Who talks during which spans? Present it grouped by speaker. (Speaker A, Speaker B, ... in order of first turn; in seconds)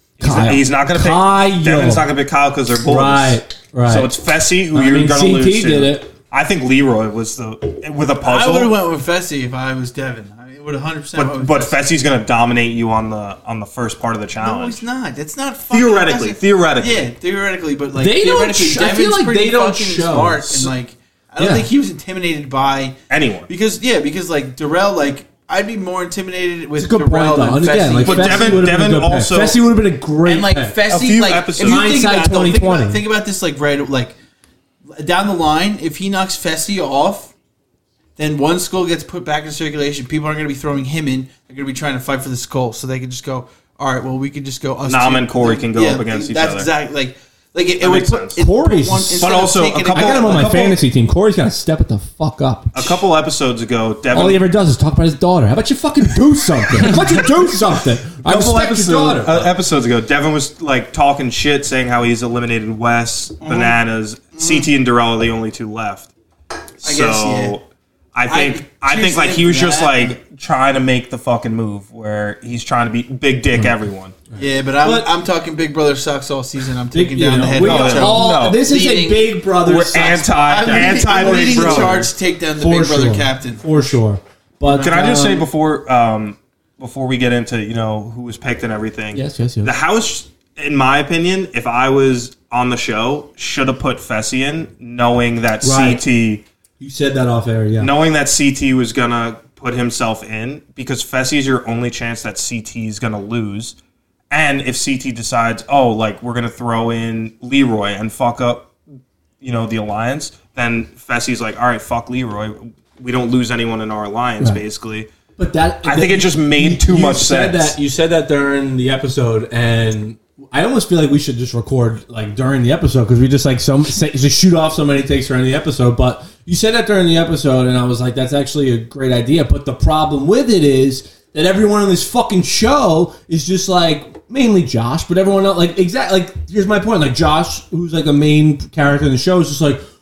Speaker A: 0.2-2.0, 2.8-4.1, 4.7-6.1, 18.0-20.7, 21.4-21.7, 26.8-30.8, 31.6-33.0, 48.4-49.3, 49.9-52.8, 54.1-59.5, 74.3-75.1, 76.9-85.5, 89.1-89.7, 95.6-96.0, 96.8-97.9, 115.4-139.8
Speaker B: 0.2-8.7, 11.1-14.8, 15.7-17.1, 23.1-23.5, 28.0-29.6, 30.9-32.0, 44.8-46.7, 47.8-48.4, 49.2-50.8, 52.7-54.4, 56.8-57.3, 58.2-66.1, 66.8-74.2, 77.5-78.6, 79.6-82.1, 84.8-96.4, 97.8-103.8, 104.3-108.7, 109.4-115.1, 115.8-117.7
Speaker C: 8.2-11.8, 14.3-28.7, 30.2-34.1, 34.9-37.3, 38.2-50.6, 63.4-63.8, 64.3-64.7, 66.8-67.6, 68.2-70.2, 74.3-79.4, 80.5-83.8, 84.7-84.9